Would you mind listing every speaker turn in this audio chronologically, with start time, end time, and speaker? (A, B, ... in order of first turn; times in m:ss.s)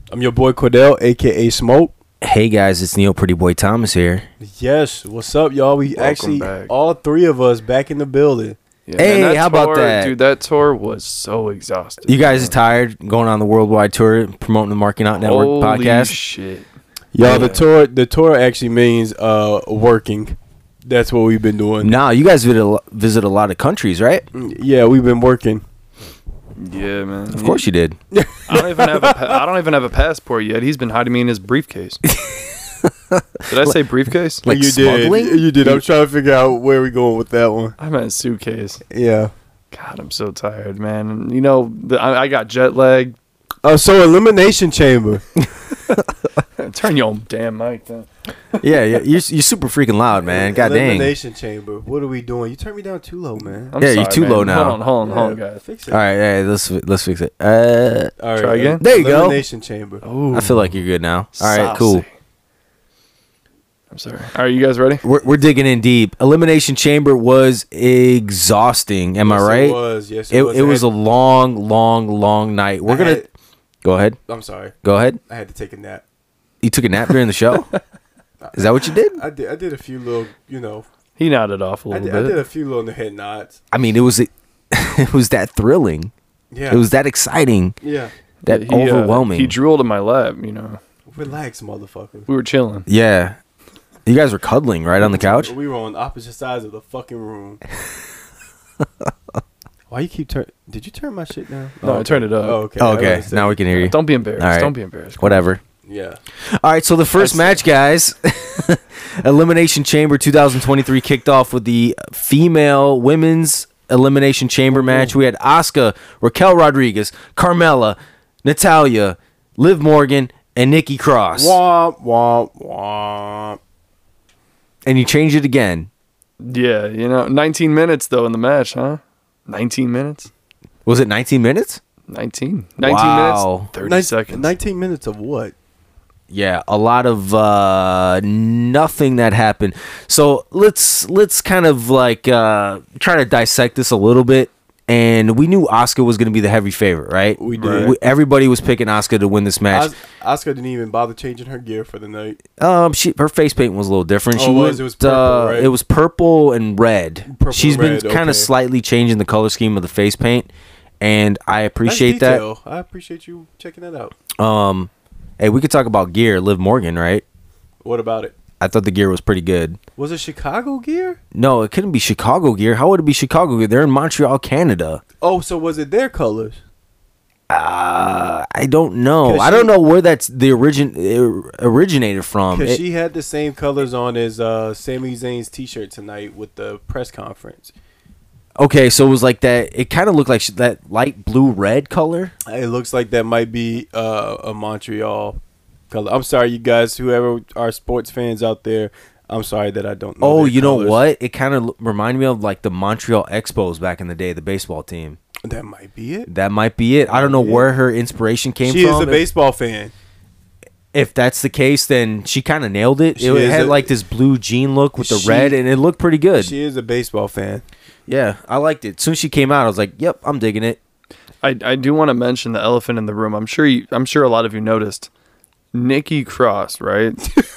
0:00.1-0:01.9 A
0:02.2-0:04.3 B
0:04.4-0:08.6 A
0:06.0-0:06.7 C
0:08.9-0:12.5 C
0:09.0-0:10.1 B
0:12.1-0:16.2 B
0:15.2-0:16.7 C
0:17.1-0:21.9 A
0:17.2-0:17.6 B
0:21.8-0:24.3 B
0:24.3-0:25.6 A
0:26.6-0:27.6 C
0:27.3-0:28.0 B
0:28.1-0:29.4 A
0:28.5-0:32.0 C
0:32.0-0:33.8 B
0:33.5-0:34.4 C
0:34.4-0:35.9 B
0:34.5-0:37.8 A
0:37.8-0:38.8 C
0:38.9-0:39.3 A
0:39.7-0:43.2 C
0:43.6-0:45.2 A
0:45.4-0:46.1 B
0:46.6-0:48.6 C
0:48.6-0:51.2 B
0:50.2-0:53.8 A
0:53.7-0:55.6 C
0:53.8-0:54.8 B
0:55.0-0:56.0 A
0:55.9-0:58.1 B
0:58.2-1:00.0 A
0:58.4-0:58.8 C
0:58.8-0:59.4 B
1:00.0-1:00.7 C
1:00.3-1:02.0 B
1:01.4-1:02.1 C
1:03.9-1:05.0 C
1:05.0-1:09.8 B
1:09.2-1:10.9 A
1:10.3-1:13.2 B
1:12.9-1:13.3 A
1:13.8-1:14.2 B
1:14.3-1:14.7 A
1:14.8-1:15.2 B
1:15.3-1:16.0 A
1:16.6-1:17.7 B
1:18.4-1:20.9 A
1:18.5-1:19.2 B
1:21.2-1:22.4 C
1:21.9-1:23.6 A
1:23.7-1:26.1 B
1:26.5-1:26.9 A
1:26.7-1:27.8 B
1:27.8-1:28.1 A
1:28.4-1:30.8 C
1:28.5-1:29.6 B
1:31.1-1:32.3 A
1:32.3-1:32.9 C
1:32.9-1:33.4 B
1:34.1-1:35.5 B
1:35.1-1:37.6 A
1:39.9-1:43.9 A
1:41.8-1:42.6 C
1:42.8-1:45.6 B
1:43.8-1:45.4 C
1:45.9-1:46.2 A
1:46.4-2:01.6 B
1:47.2-1:47.6 C
1:54.7-1:55.1 A
2:01.4-2:03.6 A
2:04.8-2:05.9 B
2:06.4-2:10.3 C
2:10.8-2:11.8 B
2:12.1-2:14.5 C
2:12.8-2:13.7 B
2:13.8-2:15.6 A
2:16.3-2:29.9 B
2:27.4-2:28.0 A
2:29.7-2:32.4 A
2:32.6-2:40.5 B
2:34.4-2:35.7 A
2:37.3-2:38.5 A
2:41.0-2:42.4 B
2:41.8-2:44.2 A
2:44.4-2:47.2 B
2:47.8-2:48.4 A
2:48.6-2:49.8 B
2:50.0-2:51.2 A
2:51.3-2:55.0 B
2:55.2-2:56.6 A
2:57.5-3:02.8 B
2:59.2-2:59.7 A
3:02.5-3:07.7 A
3:08.6-3:12.4 B
3:12.5-3:15.4 A
3:15.9-3:21.0 A
3:20.2-3:25.2 B
3:25.4-3:26.3 A
3:26.3-3:29.2 B
3:27.1-3:27.7 A
3:28.6-3:29.9 A
3:30.9-3:36.5 B
3:33.2-3:33.9 A
3:35.0-3:35.6 A
3:36.4-3:37.6 A
3:38.1-3:40.8 B
3:41.4-3:45.1 C
3:45.7-3:47.3 C